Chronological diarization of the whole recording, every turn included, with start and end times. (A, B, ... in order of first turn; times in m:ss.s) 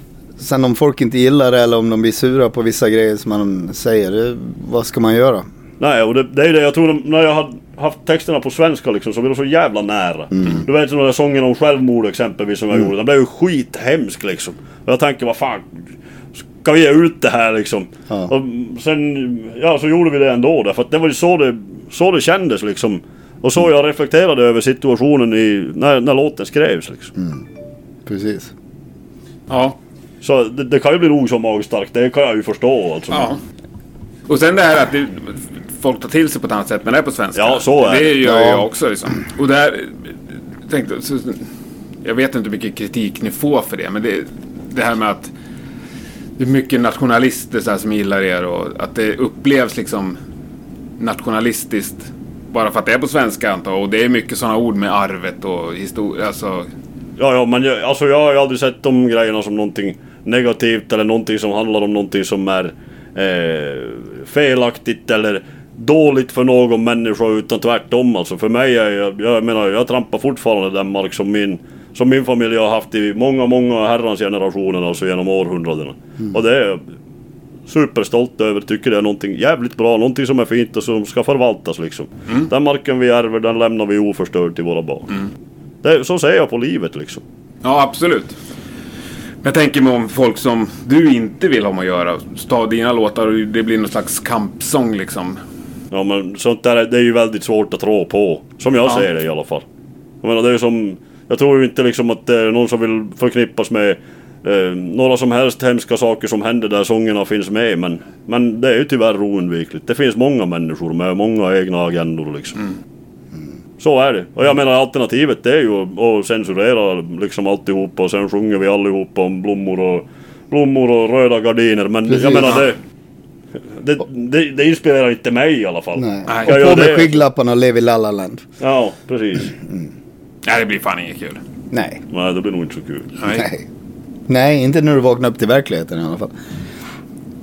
0:00.4-0:05.4 A
0:05.8-0:15.8 B
0:10.3-0:10.6 A
0:16.4-0:27.1 B
0:27.2-0:27.4 A
0:28.0-0:28.5 A
0:29.5-0:29.8 C
0:30.2-0:33.3 B
0:33.1-0:33.4 C
0:34.3-0:40.1 C
0:37.3-0:38.2 B
0:38.2-0:38.6 A
0:40.7-0:41.4 C
0:42.0-0:45.3 C
0:46.4-0:50.2 C
0:51.0-0:56.7 C
0:57.2-1:16.9 B
1:17.7-1:25.1 B
1:25.8-1:27.2 B
1:27.6-1:28.4 C
1:29.4-1:35.4 C
1:35.9-1:39.6 B
1:40.2-1:52.6 B
1:53.8-2:02.8 B
2:02.1-2:02.6 A
2:03.6-2:07.2 B
2:06.0-2:08.4 A
2:06.3-2:06.6 C
2:08.6-2:09.5 B
2:10.4-2:11.4 C
2:11.7-2:12.0 A
2:12.1-2:13.2 B
2:13.2-2:13.4 C
2:13.3-2:13.6 A
2:14.3-2:16.3 A